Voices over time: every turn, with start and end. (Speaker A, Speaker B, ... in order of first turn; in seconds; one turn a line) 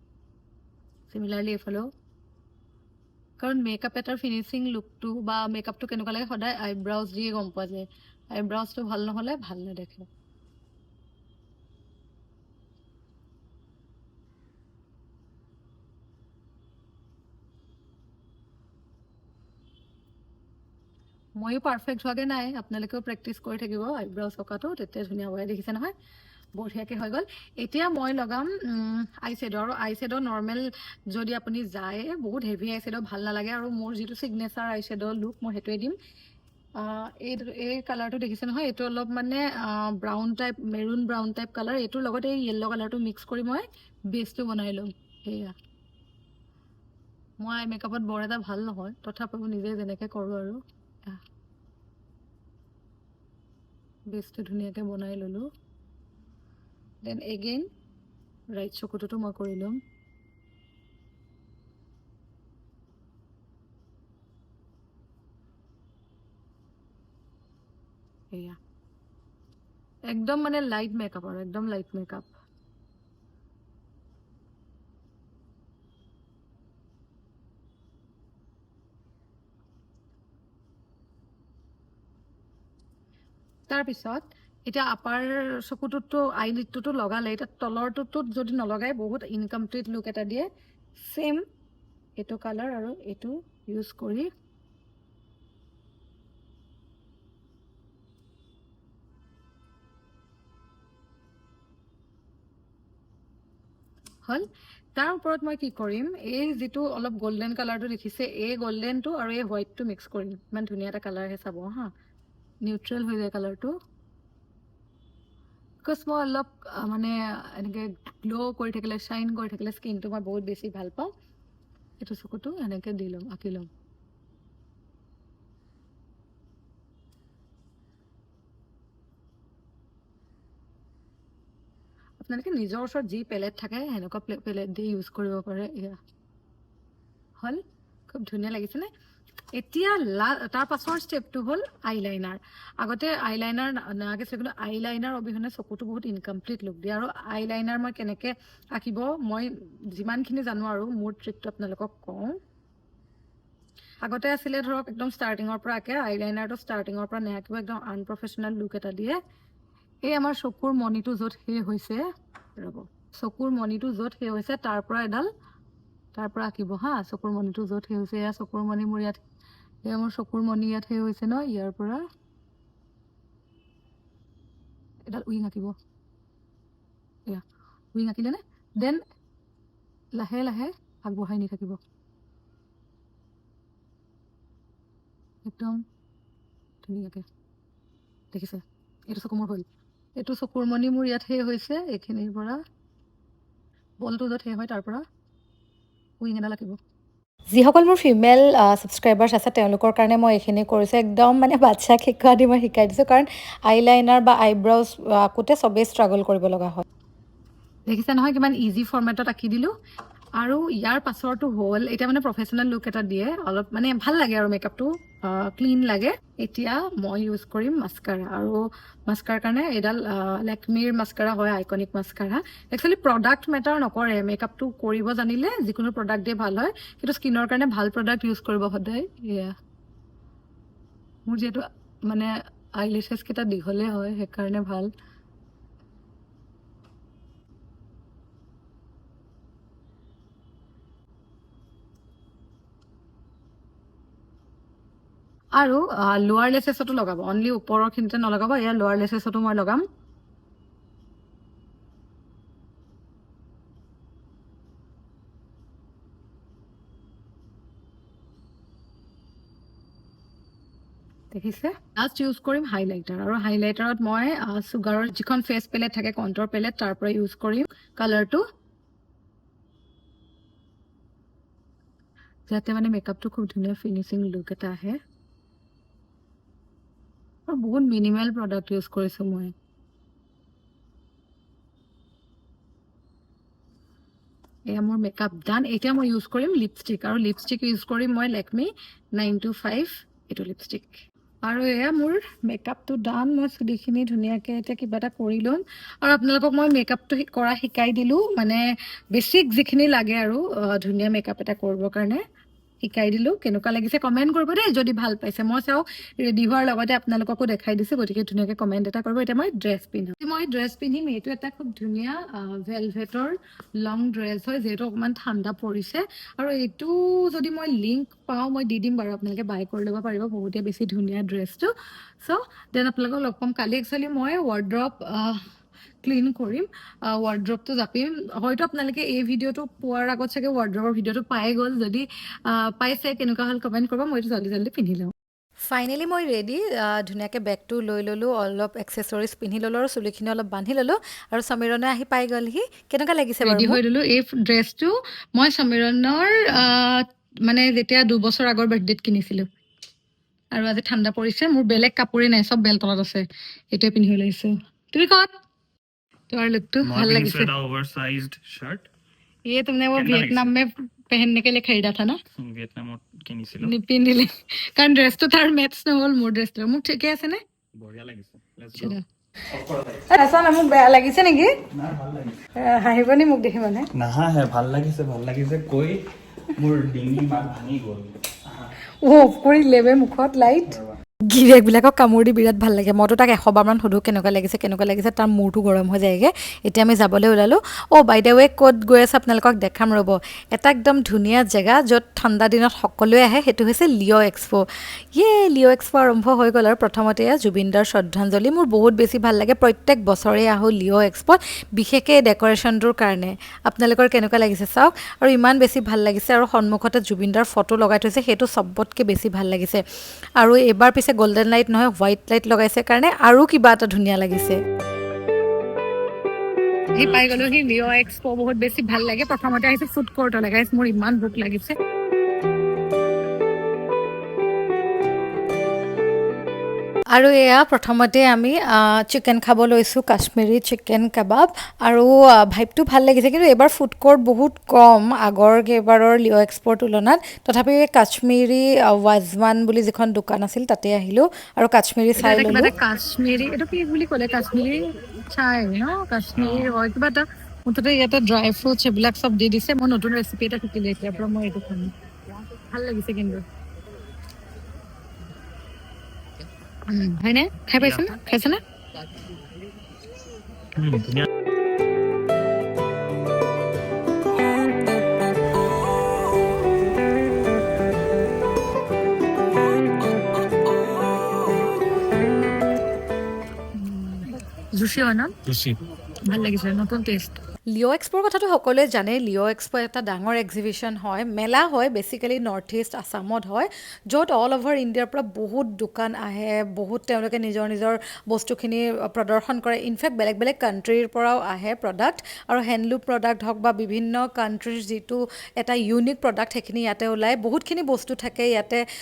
Speaker A: 1.1-1.9
Speaker A: 3.4-10.1
Speaker A: 21.4-25.9
Speaker A: 26.6-36.0
Speaker A: 36.8-45.5
Speaker A: 47.4-51.2
Speaker A: 54.1-55.5
Speaker A: 57.0-57.7
Speaker A: 58.5-59.8
Speaker A: 68.3-68.6
Speaker A: 70.1-72.3
Speaker A: 83.7-90.5
Speaker A: 91.0-91.4
Speaker A: 92.2-94.3
Speaker A: 104.2-111.9
Speaker A: 112.6-113.8
Speaker A: 115.8-121.1
Speaker A: 122.0-123.7
Speaker A: 132.2-136.0
Speaker A: 137.4-138.9
Speaker A: 139.5-152.4
Speaker A: 154.0-159.2
Speaker A: 160.0-162.1
Speaker A: 162.6-165.3
Speaker A: 166.1-169.2
Speaker A: 169.8-172.0
Speaker A: 175.1-175.7
Speaker A: 177.9-179.0
Speaker A: 180.1-181.8
Speaker A: 185.4-185.8
Speaker A: 186.8-187.2
Speaker A: 188.3-189.7
Speaker A: 190.2-192.6
Speaker A: 194.0-195.0
Speaker A: 196.2-196.8
Speaker B: 197.6-198.3
Speaker A: 198.5-202.4
Speaker B: 202.6-203.2
Speaker A: 203.7-206.1
Speaker B: 206.2-206.8
Speaker A: 207.9-209.7
Speaker A: 210.4-229.5
Speaker A: 231.3-234.9
Speaker A: 245.6-249.8
Speaker A: 261.3-268.4
Speaker A: 272.5-275.0
Speaker A: 277.5-279.5
Speaker A: 284.7-298.6
Speaker A: 299.1-302.2
Speaker A: 302.8-321.7
Speaker A: 322.2-325.4
Speaker A: 326.0-335.1
Speaker B: 335.7-343.8
Speaker A: 343.4-349.5
Speaker A: 350.5-355.3
Speaker A: 356.3-357.5
Speaker C: 356.8-358.9
Speaker A: 359.4-362.2
Speaker C: 359.9-360.6
Speaker C: 362.4-363.7
Speaker A: 363.6-367.4
Speaker C: 367.7-369.0
Speaker A: 368.8-369.0
Speaker C: 369.5-370.0
Speaker A: 370.1-371.5
Speaker C: 371.7-372.4
Speaker A: 372.6-373.9
Speaker C: 373.9-376.0
Speaker C: 376.5-378.7
Speaker A: 379.0-380.7
Speaker C: 380.6-380.9
Speaker B: 381.3-394.6
Speaker B: 395.1-409.8
Speaker B: 410.4-414.6
Speaker A: 416.9-421.7
Speaker B: 427.1-442.7
Speaker A: 442.1-451.9
Speaker C: 446.3-446.7
Speaker A: 452.6-453.4
Speaker A: 456.9-458.6
Speaker C: 457.8-458.2
Speaker C: 460.8-461.2
Speaker A: 473.8-475.3
Speaker C: 475.4-475.8
Speaker A: 476.2-477.4
Speaker B: 477.7-498.8